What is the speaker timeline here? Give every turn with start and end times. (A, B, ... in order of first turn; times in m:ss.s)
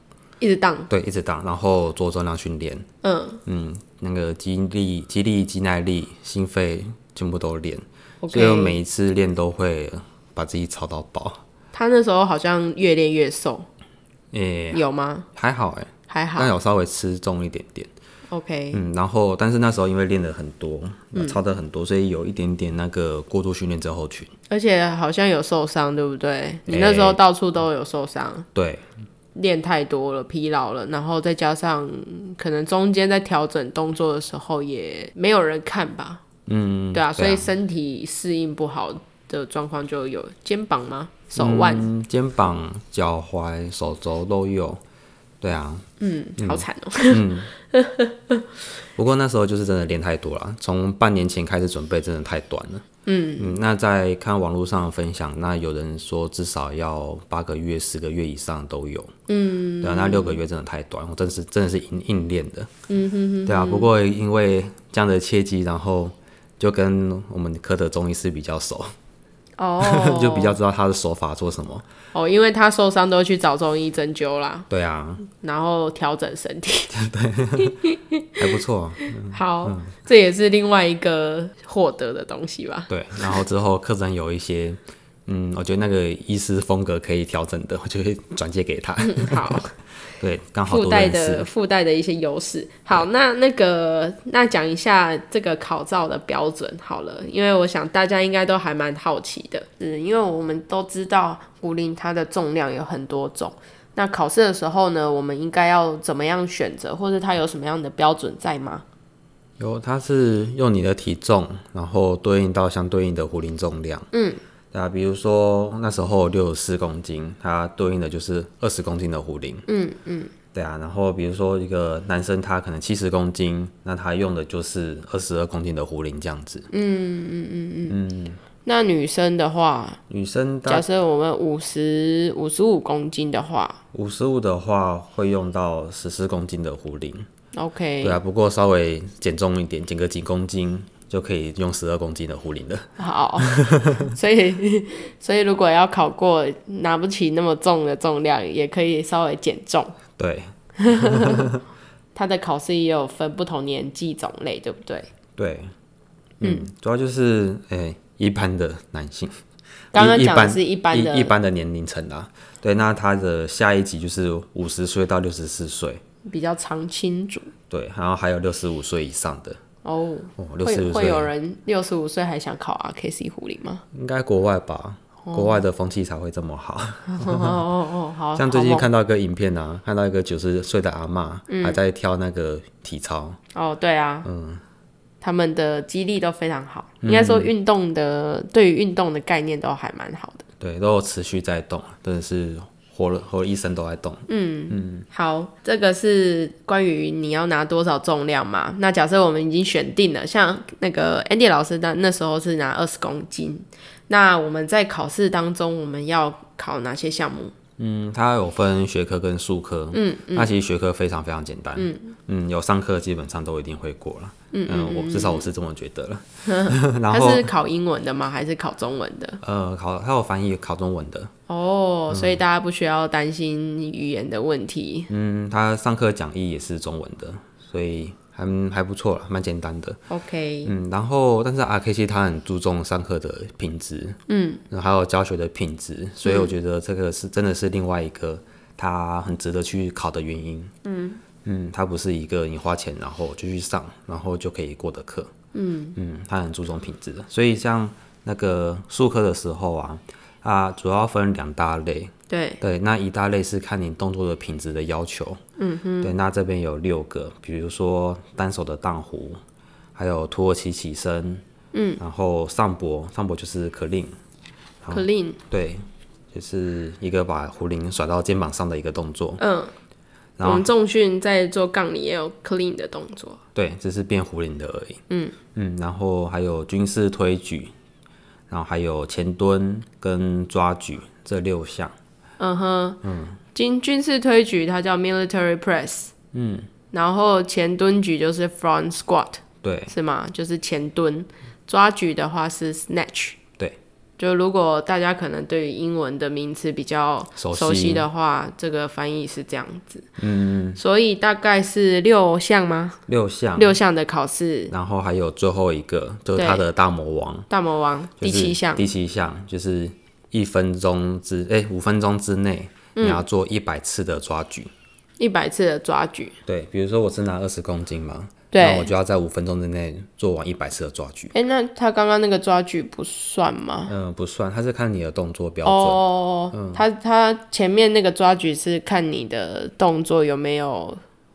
0:00.4-0:00.9 A
0:00.9-0:02.9 B
0:03.0-0:03.4 A
0:03.4-0:11.4 B
0:08.2-0:08.8 A
0:11.7-0:13.7 A
0:14.3-0:14.8 B
0:14.7-0:15.3 A
0:15.4-0:17.9 B
0:16.1-0:16.5 A
0:18.3-0:18.8 A
0:18.7-0:24.3 B
0:24.5-0:28.5 A
0:26.7-0:27.2 B
0:28.6-0:28.8 B
0:29.4-0:36.2 A
0:36.5-0:37.5 B
0:36.9-0:41.9 A
0:41.4-0:44.8 B
0:45.4-0:45.9 B
0:46.0-0:48.5 A
0:46.4-0:47.5 B
0:49.0-0:52.9 B
0:53.1-0:53.6 A
0:53.4-0:59.1 B
0:59.3-1:00.4 A
0:59.8-1:02.7 B
1:02.9-1:03.9 A
1:03.5-1:08.9 B
1:09.6-1:10.6 A
1:09.8-1:11.9 B
1:12.1-1:14.7 A
1:14.7-1:15.2 B
1:15.2-1:16.9 A
1:16.9-1:17.8 B
1:17.6-1:18.4 A
1:18.4-1:19.9 B
1:19.0-1:23.4 A
1:22.9-1:29.6 B
1:29.0-1:29.7 A
1:30.2-1:31.5 B
1:30.7-1:48.8 A
1:49.6-1:54.1 B
1:54.1-1:54.4 A
1:54.7-1:59.7 B
1:59.7-2:00.3 A
2:00.5-2:06.7 B
2:06.7-2:08.0 A
2:07.9-2:08.4 B
2:08.6-2:10.0 A
2:10.1-2:10.9 B
2:10.7-2:13.8 A
2:13.9-2:17.3 B
2:17.6-2:18.2 A
2:18.0-2:24.1 B
2:23.0-2:29.9 A
2:30.2-2:31.6 B
2:30.8-2:31.5 A
2:32.2-2:35.1 A
2:35.4-2:35.7 B
2:36.4-2:39.3 B
2:39.9-2:46.0 B
2:39.9-2:41.3 A
2:46.3-2:47.5 A
2:47.7-2:49.6 B
2:49.8-2:53.8 A
2:50.4-2:51.3 B
2:53.9-2:57.6 B
2:55.3-2:55.6 A
2:57.1-2:58.9 A
2:58.4-3:03.4 B
3:01.5-3:01.8 A
3:03.6-3:04.3 A
3:04.2-3:04.6 B
3:05.2-3:10.4 A
3:07.0-3:07.5 B
3:10.6-3:15.1 B
3:14.3-3:27.5 A
3:27.8-3:37.5 B
3:29.9-3:30.5 A
3:31.8-3:32.1 A
3:34.5-3:35.5 A
3:36.4-3:39.4 A
3:39.4-3:41.3 B
3:41.5-3:45.1 A
3:42.1-3:42.4 B
3:45.1-3:50.0 B
3:50.1-3:50.7 A
3:50.6-3:54.2 B
3:54.3-3:54.6 A
3:54.7-4:00.7 B
3:56.2-3:56.5 A
4:00.8-4:01.2 A
4:01.4-4:05.3 B
4:05.5-4:06.0 A
4:06.0-4:15.4 B
4:12.3-4:12.6 A
4:15.6-4:16.1 A
4:16.0-4:19.4 B
4:20.0-4:21.4 B
4:21.7-4:22.0 A
4:22.0-4:24.1 B
4:24.8-4:29.4 B
4:24.9-4:25.4 A
4:29.4-4:29.7 A
4:30.4-4:30.7 B
4:30.4-4:33.4 A
4:33.6-4:35.0 B
4:35.1-4:35.4 A
4:35.5-4:37.7 B
4:38.5-4:42.0 B
4:42.4-4:43.0 A
4:43.0-4:43.4 B
4:43.5-4:46.1 A
4:46.3-4:46.7 B
4:46.9-4:53.4 A
4:49.6-4:49.9 B
4:54.2-5:00.1 A
4:57.4-4:58.1 B
5:00.2-5:00.8 B
5:00.8-5:03.0 A
5:03.1-5:03.8 B
5:03.6-5:04.7 A
5:04.7-5:07.5 B
5:06.4-5:06.6 A
5:07.5-5:08.9 A
5:08.2-5:14.7 B
5:13.0-5:13.2 A
5:15.2-5:16.4 A
5:16.5-5:21.3 B
5:18.5-5:18.9 A
5:21.3-5:23.9 A
5:23.9-5:26.8 B
5:25.6-5:31.0 A